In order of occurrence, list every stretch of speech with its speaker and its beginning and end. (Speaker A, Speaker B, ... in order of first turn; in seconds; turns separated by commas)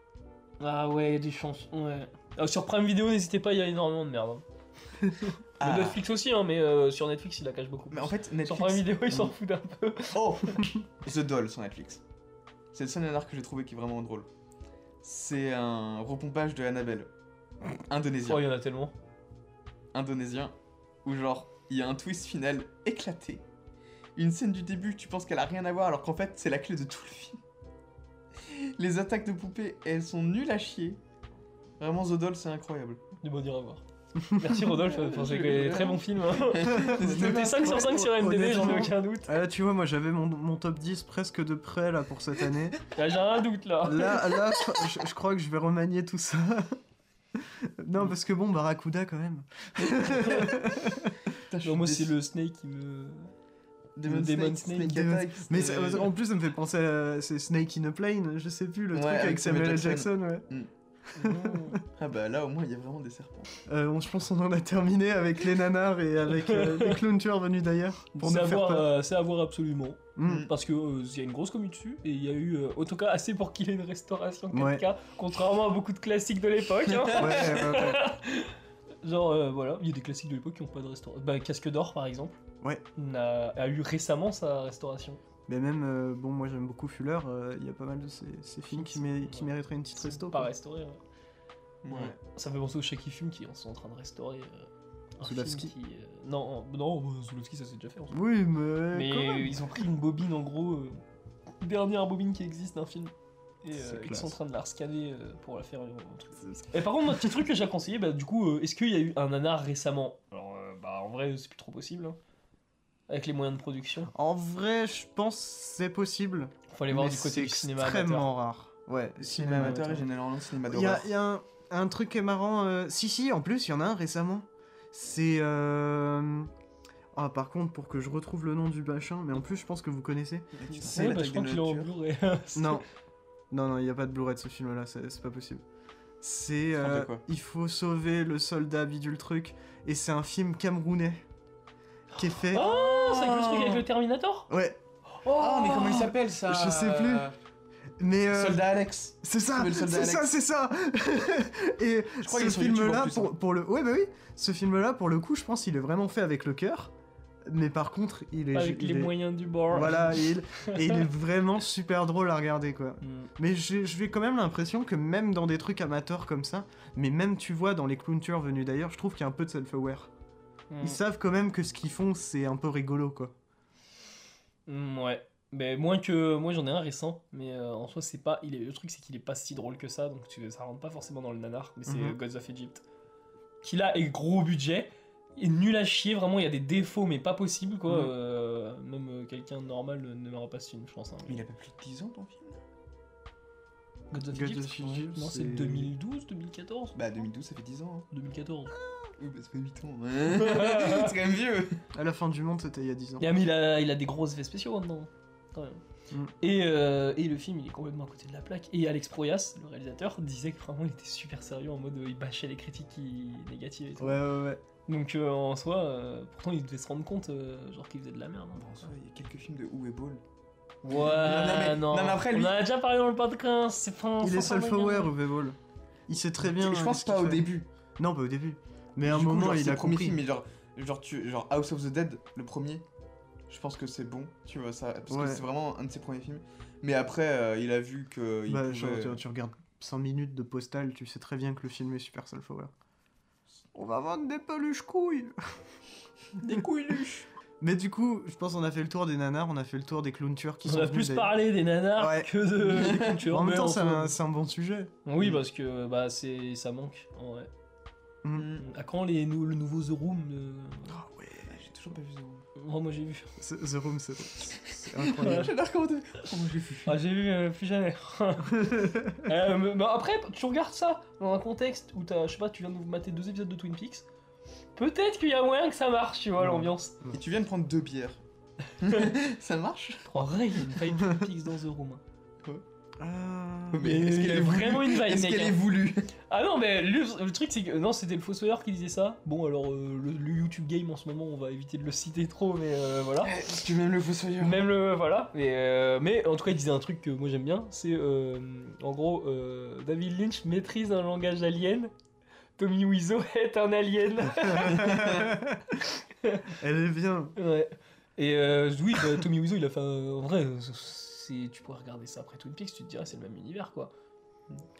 Speaker A: 0.6-4.4, Speaker A: 5.2-10.6, Speaker B: 5.6-6.0, Speaker B: 7.9-9.3, Speaker B: 10.1-12.0, Speaker B: 12.7-14.3, Speaker B: 15.0-17.1, Speaker B: 17.9-18.4, Speaker A: 18.2-18.9, Speaker B: 19.9-20.5, Speaker B: 21.1-23.4, Speaker B: 24.2-27.4, Speaker B: 28.5-31.0, Speaker B: 31.8-33.0, Speaker A: 33.2-39.3, Speaker C: 34.2-34.6, Speaker B: 34.8-38.0, Speaker C: 36.6-42.8, Speaker A: 42.9-44.3, Speaker C: 43.9-46.8, Speaker C: 47.4-51.2, Speaker A: 50.2-50.5, Speaker B: 51.5-52.1, Speaker A: 51.6-53.3, Speaker B: 54.0-56.1, Speaker A: 54.0-55.0, Speaker C: 54.8-60.5, Speaker B: 58.9-60.7, Speaker C: 61.1-61.8, Speaker A: 61.1-61.8, Speaker B: 62.0-63.5, Speaker C: 63.7-68.9, Speaker A: 66.3-67.0, Speaker A: 68.2-82.4, Speaker C: 70.2-70.5, Speaker B: 70.2-70.5, Speaker C: 74.5-74.9, Speaker B: 76.9-77.6, Speaker C: 77.2-78.0, Speaker A: 83.0-85.2, Speaker C: 85.5-90.5, Speaker A: 88.7-91.0, Speaker B: 91.8-92.2, Speaker A: 91.9-98.2, Speaker C: 95.2-95.7, Speaker C: 98.1-99.7, Speaker A: 98.9-101.0, Speaker A: 101.6-112.2, Speaker C: 103.7-104.3, Speaker C: 106.4-107.3, Speaker A: 113.1-114.1, Speaker C: 114.1-120.1, Speaker A: 116.7-118.3, Speaker B: 119.2-121.1, Speaker A: 119.6-119.9, Speaker C: 120.7-126.5, Speaker C: 127.1-130.5, Speaker B: 130.6-131.9, Speaker A: 130.7-132.8, Speaker C: 132.6-132.8, Speaker C: 133.5-135.6, Speaker C: 136.2-141.2, Speaker B: 136.8-137.2, Speaker C: 142.2-142.7, Speaker A: 142.2-144.5, Speaker B: 142.5-143.8, Speaker C: 144.5-144.8, Speaker A: 145.2-146.1, Speaker B: 145.3-147.3, Speaker C: 146.4-147.3, Speaker C: 148.0-148.6, Speaker B: 148.3-150.3, Speaker C: 149.2-156.9, Speaker B: 152.2-153.3, Speaker C: 157.5-159.2, Speaker A: 158.5-161.0, Speaker C: 159.7-170.1, Speaker A: 163.0-163.3, Speaker A: 170.7-171.0, Speaker C: 170.8-173.3, Speaker A: 174.7-182.8, Speaker C: 181.9-182.2, Speaker A: 183.6-191.4, Speaker C: 187.9-188.1, Speaker B: 191.3-192.6, Speaker A: 194.1-197.0, Speaker C: 194.3-195.9, Speaker B: 197.0-198.1, Speaker A: 198.1-198.7, Speaker B: 199.2-201.8, Speaker A: 200.3-201.1, Speaker C: 201.9-203.3, Speaker A: 203.2-205.8, Speaker A: 206.4-214.2, Speaker C: 214.0-214.6, Speaker A: 214.9-218.9, Speaker B: 218.6-220.2, Speaker B: 220.8-222.6, Speaker A: 220.9-225.1, Speaker C: 224.2-225.6, Speaker C: 226.1-230.2, Speaker B: 226.4-227.7, Speaker B: 229.1-232.8, Speaker B: 233.5-239.2, Speaker C: 235.1-235.4, Speaker C: 238.5-242.7, Speaker C: 243.7-245.4, Speaker A: 246.4-247.2, Speaker C: 247.6-254.9, Speaker A: 250.7-254.2, Speaker B: 252.8-253.1, Speaker A: 255.1-257.5, Speaker C: 258.2-258.5, Speaker B: 258.3-258.7, Speaker A: 258.6-261.0, Speaker C: 260.9-261.5, Speaker B: 261.4-262.4, Speaker A: 262.6-263.4, Speaker C: 263.4-265.5, Speaker B: 265.0-267.0, Speaker A: 265.0-265.5, Speaker A: 266.9-274.1, Speaker C: 268.6-269.3, Speaker A: 274.8-277.0, Speaker C: 276.4-277.2, Speaker B: 277.1-278.2, Speaker B: 278.8-280.1, Speaker A: 280.1-282.0, Speaker C: 281.0-281.2, Speaker C: 283.0-283.9, Speaker B: 283.7-286.1, Speaker A: 283.8-285.6, Speaker A: 286.3-293.4, Speaker B: 293.3-294.6, Speaker A: 294.4-301.9, Speaker A: 302.6-305.3, Speaker C: 304.4-305.8, Speaker B: 304.7-305.3, Speaker A: 306.2-306.5, Speaker C: 306.6-307.4, Speaker A: 307.4-313.9